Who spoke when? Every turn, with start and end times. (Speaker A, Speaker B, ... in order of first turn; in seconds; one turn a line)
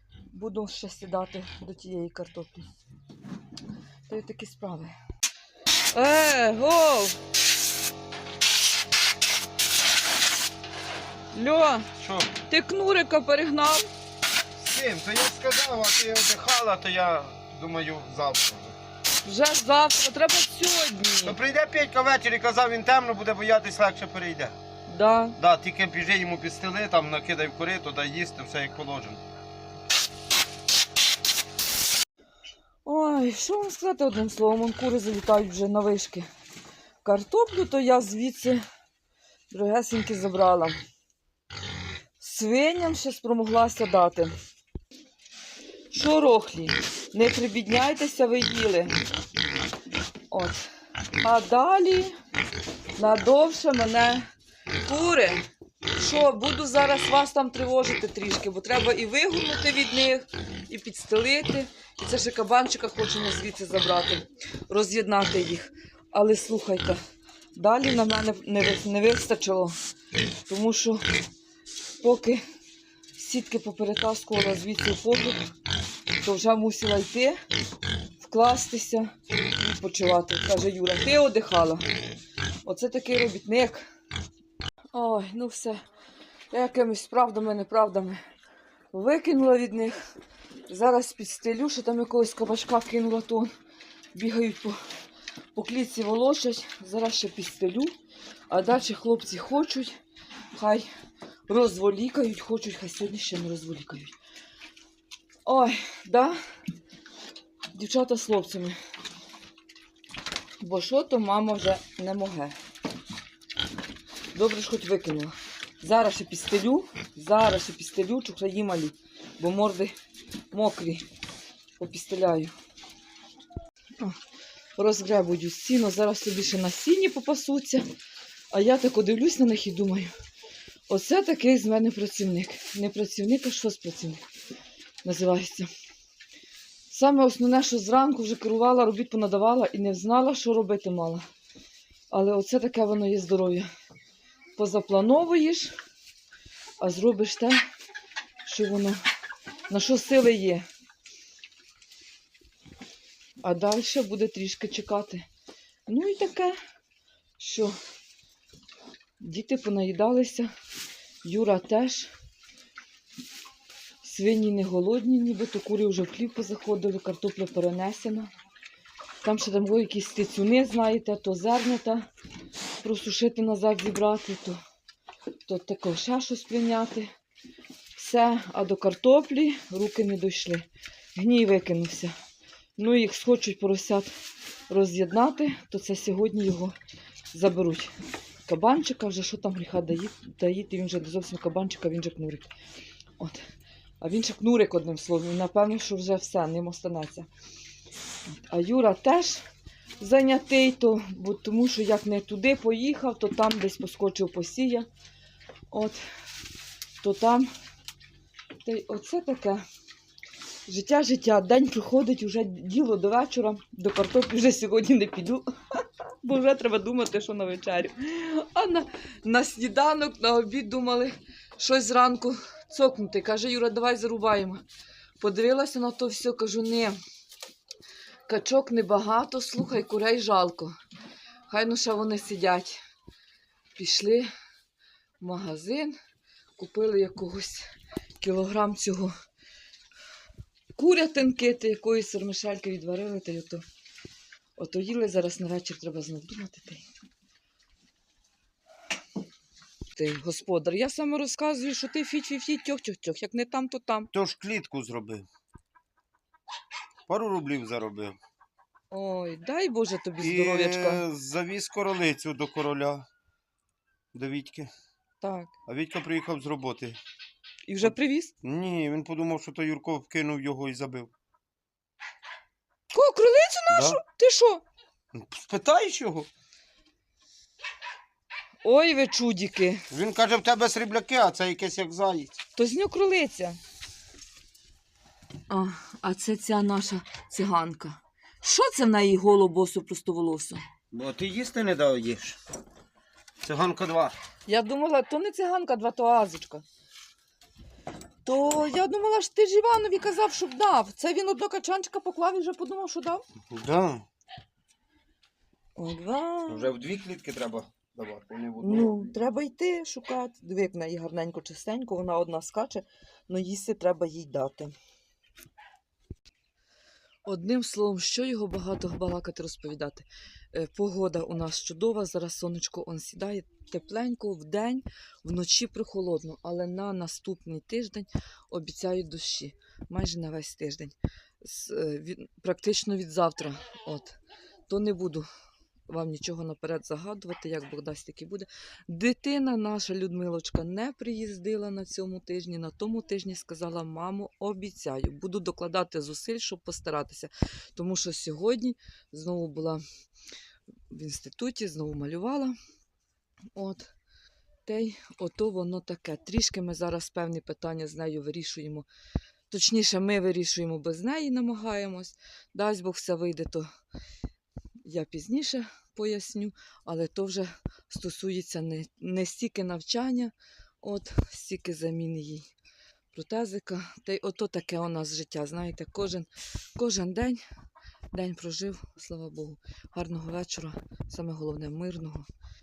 Speaker A: 0.3-2.6
Speaker A: 4.1-4.9
Speaker A: 5.9-7.2
Speaker A: 11.3-11.9
Speaker B: 12.0-12.3
Speaker A: 12.5-13.9
Speaker B: 14.6-18.8
Speaker A: 19.2-21.4
Speaker B: 21.2-24.6
Speaker A: 24.9-25.4
Speaker B: 25.4-29.2
Speaker A: 32.8-36.3
Speaker A: 37.0-38.6
Speaker A: 39.5-40.8
Speaker A: 42.2-44.3
Speaker A: 45.9-48.9
Speaker A: 50.3-50.6
Speaker A: 51.2-52.1
Speaker A: 53.0-54.3
Speaker A: 54.8-55.4
Speaker A: 55.9-67.0
Speaker A: 67.5-69.7
Speaker A: 70.5-71.0
Speaker A: 72.0-72.4
Speaker A: 73.2-75.5
Speaker A: 76.2-77.4
Speaker A: 78.2-81.8
Speaker A: 82.6-83.8
Speaker A: 84.9-85.8
Speaker A: 86.5-88.2
Speaker A: 88.9-90.0
Speaker A: 90.7-93.5
Speaker A: 94.1-94.8
Speaker A: 95.5-97.9
Speaker A: 98.5-99.9
Speaker A: 100.5-100.9
Speaker A: 101.5-104.1
Speaker A: 105.4-106.4
Speaker A: 107.7-108.8
Speaker A: 110.6-112.5
Speaker A: 114.3-119.9
Speaker A: 120.5-121.0
Speaker A: 121.8-122.5
Speaker A: 124.8-127.8
Speaker A: 128.5-130.1
Speaker A: 130.9-134.2
Speaker A: 135.0-135.7
Speaker A: 136.9-141.2
Speaker A: 142.1-143.7
Speaker A: 144.6-145.7
Speaker A: 146.8-147.6
Speaker A: 148.4-149.0
Speaker A: 149.7-150.7
Speaker A: 153.4-155.2
Speaker A: 155.9-156.6
Speaker A: 157.4-157.8
Speaker A: 159.2-160.5
Speaker A: 161.2-162.1
Speaker A: 164.0-168.3
Speaker A: 169.2-172.1
Speaker A: 172.8-174.6
Speaker A: 175.4-177.1
Speaker A: 177.9-182.1
Speaker A: 182.8-184.1
Speaker A: 184.7-186.8
Speaker A: 187.3-187.9
Speaker A: 188.4-192.5
Speaker A: 193.2-193.4
Speaker A: 194.0-197.3
Speaker A: 198.3-199.4
Speaker A: 200.0-204.9
Speaker A: 205.7-206.0
Speaker A: 207.0-207.5
Speaker A: 208.6-209.6
Speaker A: 210.7-224.6
Speaker A: 225.2-227.0
Speaker A: 228.3-230.7
Speaker A: 231.5-232.8
Speaker A: 233.8-234.3
Speaker A: 235.2-235.9
Speaker A: 236.6-237.7
Speaker A: 238.2-239.1
Speaker A: 240.8-243.6
Speaker A: 244.6-246.8
Speaker A: 249.9-254.1
Speaker B: 254.1-255.2
Speaker B: 257.1-258.2
Speaker A: 258.9-261.0
Speaker B: 260.2-263.1
Speaker B: 264.1-264.7
Speaker A: 265.2-265.5
Speaker B: 265.7-267.0
Speaker A: 267.7-268.3
Speaker B: 268.4-271.1
Speaker A: 272.9-274.6
Speaker B: 273.7-274.0
Speaker B: 275.1-276.3
Speaker A: 278.6-279.9
Speaker B: 279.9-282.3
Speaker A: 282.6-283.6
Speaker A: 285.5-290.6
Speaker B: 290.9-292.4
Speaker B: 293.4-294.2
Speaker A: 294.5-296.6
Speaker A: 298.2-303.2
Speaker B: 303.5-304.0
Speaker A: 305.8-306.7
Speaker B: 306.5-309.1
Speaker A: 308.6-314.7
Speaker A: 317.2-335.3
Speaker A: 335.9-349.8
Speaker A: 350.9-352.5
Speaker A: 353.5-353.9
Speaker A: 354.6-358.9
Speaker A: 359.5-363.7
Speaker A: 364.8-372.5
Speaker A: 373.1-377.4
Speaker A: 378.1-382.2